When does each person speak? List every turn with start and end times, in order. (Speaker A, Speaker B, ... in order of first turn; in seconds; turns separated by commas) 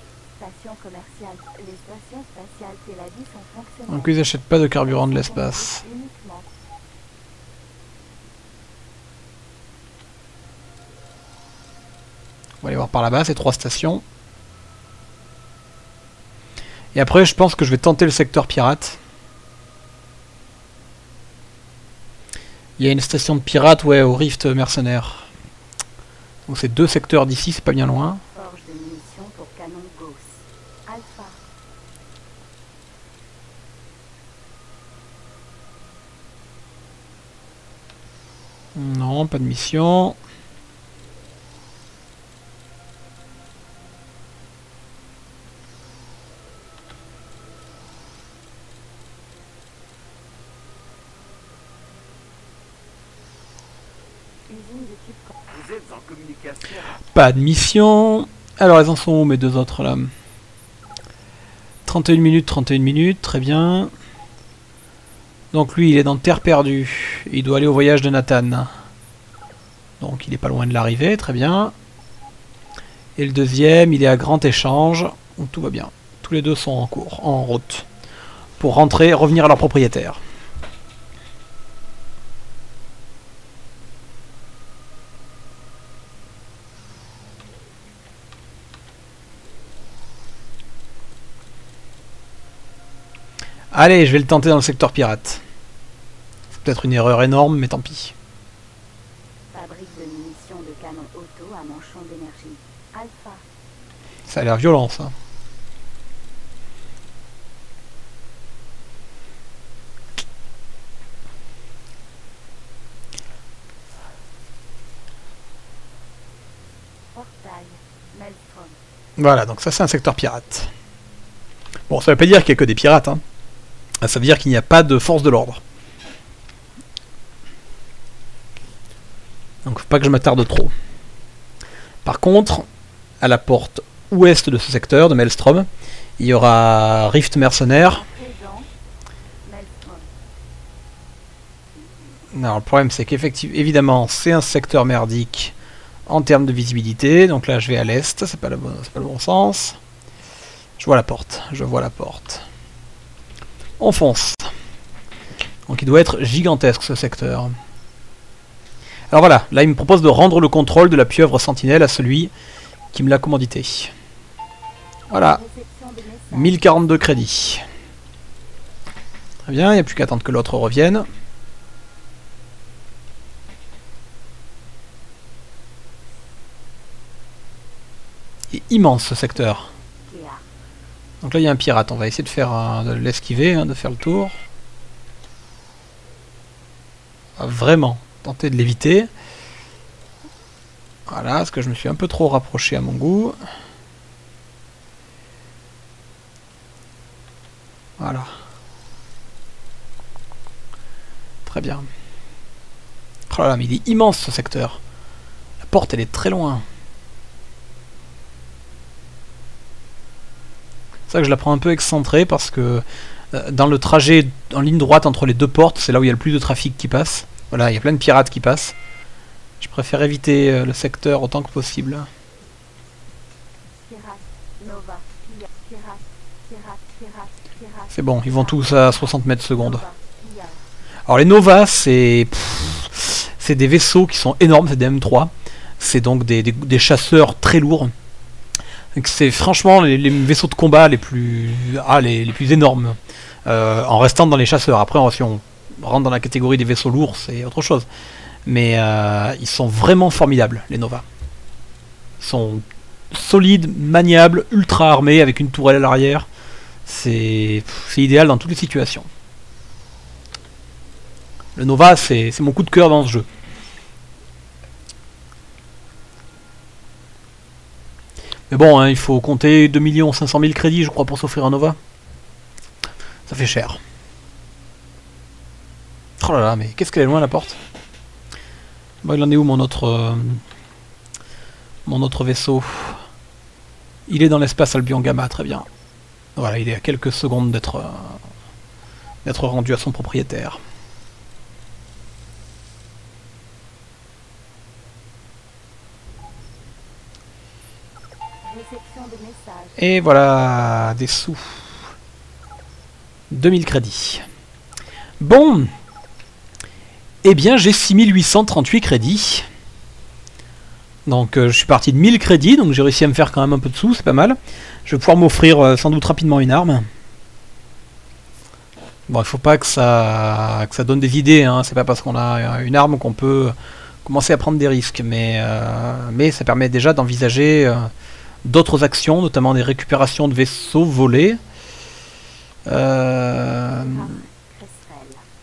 Speaker A: 0.3-4.1, Speaker B: 3.9-5.8, Speaker A: 4.7-6.5, Speaker B: 12.6-14.0, Speaker B: 16.9-19.0, Speaker B: 22.8-25.3, Speaker B: 26.5-28.2, Speaker A: 28.3-31.4, Speaker B: 38.7-40.1, Speaker A: 54.5-55.7, Speaker B: 57.1-60.1, Speaker B: 61.9-63.9, Speaker B: 65.5-68.7, Speaker B: 70.0-71.7, Speaker B: 73.2-77.9, Speaker B: 78.6-80.2, Speaker B: 93.7-95.4, Speaker B: 96.5-98.1, Speaker A: 99.5-103.4, Speaker B: 104.3-105.1, Speaker A: 117.1-118.8, Speaker B: 119.2-120.7, Speaker B: 121.9-123.2, Speaker B: 124.0-125.6, Speaker B: 129.6-130.7, Speaker B: 132.0-132.7, Speaker B: 133.2-135.7, Speaker B: 136.2-138.0, Speaker A: 137.8-138.7, Speaker A: 139.4-140.1, Speaker B: 142.3-145.5, Speaker B: 146.1-149.8, Speaker B: 150.8-152.4, Speaker B: 153.8-154.5, Speaker B: 155.7-157.5, Speaker B: 159.1-162.3, Speaker B: 162.9-163.9, Speaker B: 165.1-165.4, Speaker A: 165.1-167.0, Speaker B: 166.3-167.6, Speaker B: 169.4-171.1, Speaker B: 178.5-179.7, Speaker A: 180.0-180.4, Speaker B: 181.2-184.4, Speaker B: 187.4-189.1, Speaker B: 191.1-193.4, Speaker B: 198.0-198.3, Speaker B: 201.4-201.9, Speaker B: 203.3-204.8, Speaker B: 205.6-206.6, Speaker B: 211.1-218.8, Speaker B: 219.6-222.1, Speaker A: 223.7-230.6, Speaker B: 227.9-229.8, Speaker B: 231.1-237.9, Speaker B: 238.9-247.8, Speaker B: 248.4-251.0, Speaker B: 252.2-256.2, Speaker B: 256.9-259.1, Speaker B: 261.6-263.2, Speaker B: 268.5-271.8, Speaker B: 273.3-273.8, Speaker B: 276.2-277.6, Speaker B: 279.0-280.4, Speaker B: 281.9-283.0, Speaker B: 284.1-285.7, Speaker B: 286.4-288.2, Speaker B: 289.2-290.6, Speaker A: 298.4-299.9, Speaker B: 299.8-301.7, Speaker B: 303.3-304.2, Speaker B: 305.2-305.7, Speaker B: 307.2-309.5, Speaker B: 311.1-316.9, Speaker B: 319.1-327.9, Speaker B: 328.4-331.4, Speaker B: 332.6-334.1, Speaker A: 333.7-335.2